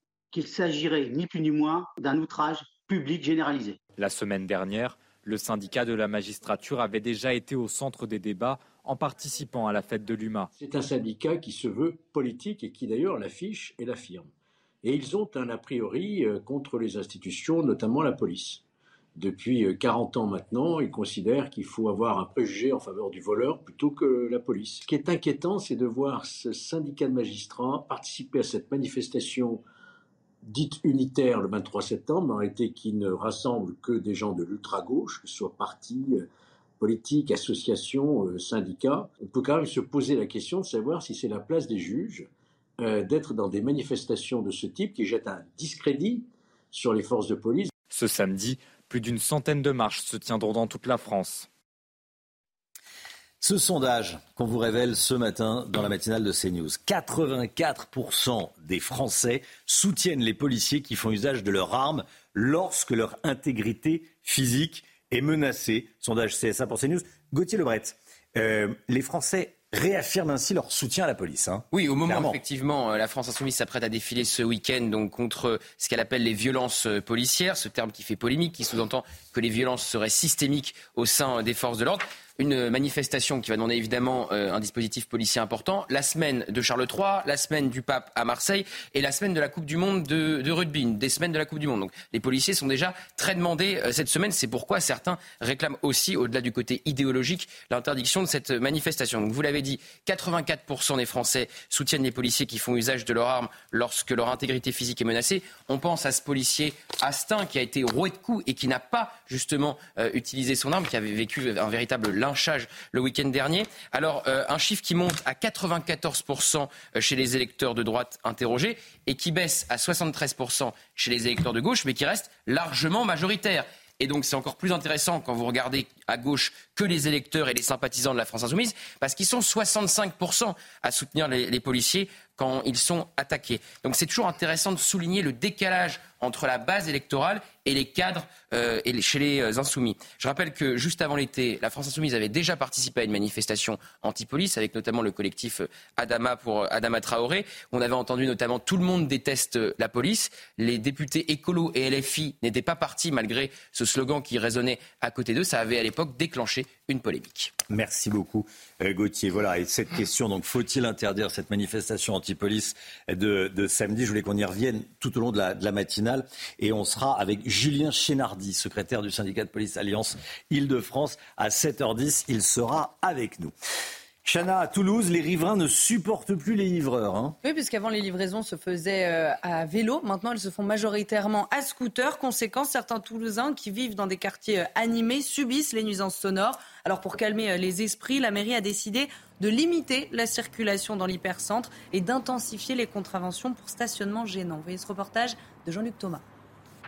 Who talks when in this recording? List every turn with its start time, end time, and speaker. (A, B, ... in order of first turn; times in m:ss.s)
0:00.3-0:03.8 A
0:04.0-0:10.5 B
0:10.6-0:14.3 C
0:14.8-0:18.6 C
0:19.2-0:29.6 C
0:30.4-0:36.2 C
0:36.8-0:42.3 C
0:42.8-0:47.7 C
0:47.9-0:51.5 B
0:53.4-1:12.4 D
1:11.7-2:37.5 E
2:37.7-2:53.5 D
2:54.2-2:57.4 D
2:57.4-3:16.2 F